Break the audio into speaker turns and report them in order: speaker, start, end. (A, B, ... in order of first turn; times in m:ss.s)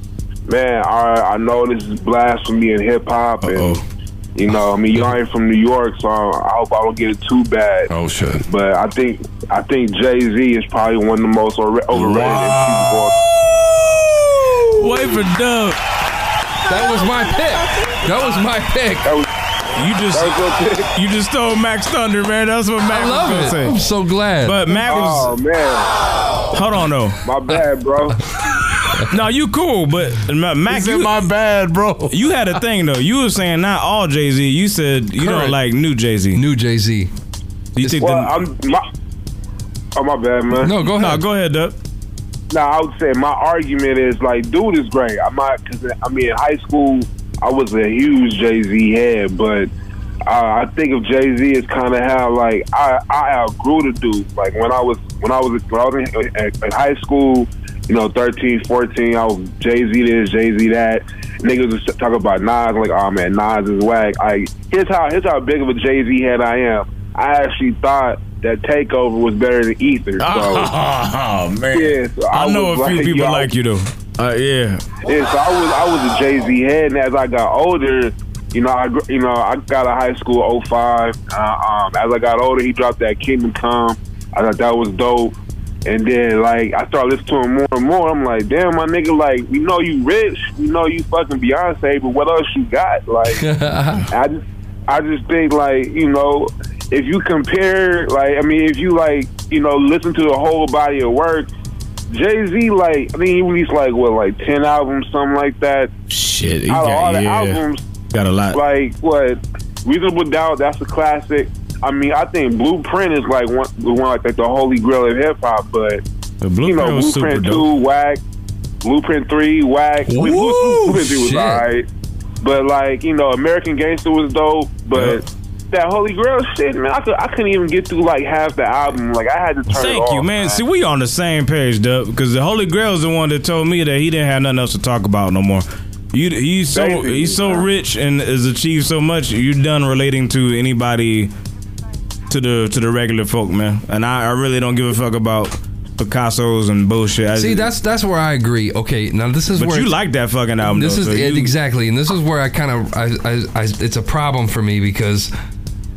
0:00.5-0:03.8 A
0:03.5-0:03.8 B
0:04.4-0:07.9 A
0:07.9-0:08.4 C
0:08.5-0:13.2 A
0:11.9-0:13.1 C
0:14.7-0:15.8 B
0:16.6-0:19.1 D
0:19.8-0:23.8 B
0:20.1-0:20.9 A
0:22.9-0:25.0 D
0:24.4-0:25.3 B
0:24.9-0:25.9 A
0:26.5-0:27.2 B
0:27.2-0:28.2 A
0:29.1-0:31.2 B
0:30.7-0:32.2 C
0:32.1-0:36.4 B
0:35.2-0:35.6 D
0:36.3-0:37.1 D
0:37.8-0:38.3 B
0:37.8-0:38.1 D
0:38.0-0:38.9 A
0:40.0-0:40.7 A
0:40.6-0:41.2 D
0:41.0-0:41.8 B
0:42.5-0:49.7 A
0:50.3-1:10.7 A
1:10.2-1:14.9 B
1:11.7-1:13.5 A
1:15.0-1:25.3 A
1:25.9-1:33.4 A
1:33.4-1:34.1 D
1:34.1-1:41.5 A
1:42.1-1:45.9 A
1:46.1-1:47.6 B
1:46.7-1:47.8 A
1:48.1-1:48.6 B
1:48.5-1:56.0 A
1:56.4-1:57.7 B
1:56.6-1:58.2 A
1:58.8-2:01.9 A
2:00.1-2:01.7 D
2:02.4-2:10.6 A
2:05.0-2:05.2 B
2:09.7-2:21.3 B
2:16.7-2:17.6 A
2:22.3-2:27.7 B
2:27.4-2:30.0 D
2:29.5-2:31.5 B
2:30.6-2:35.3 D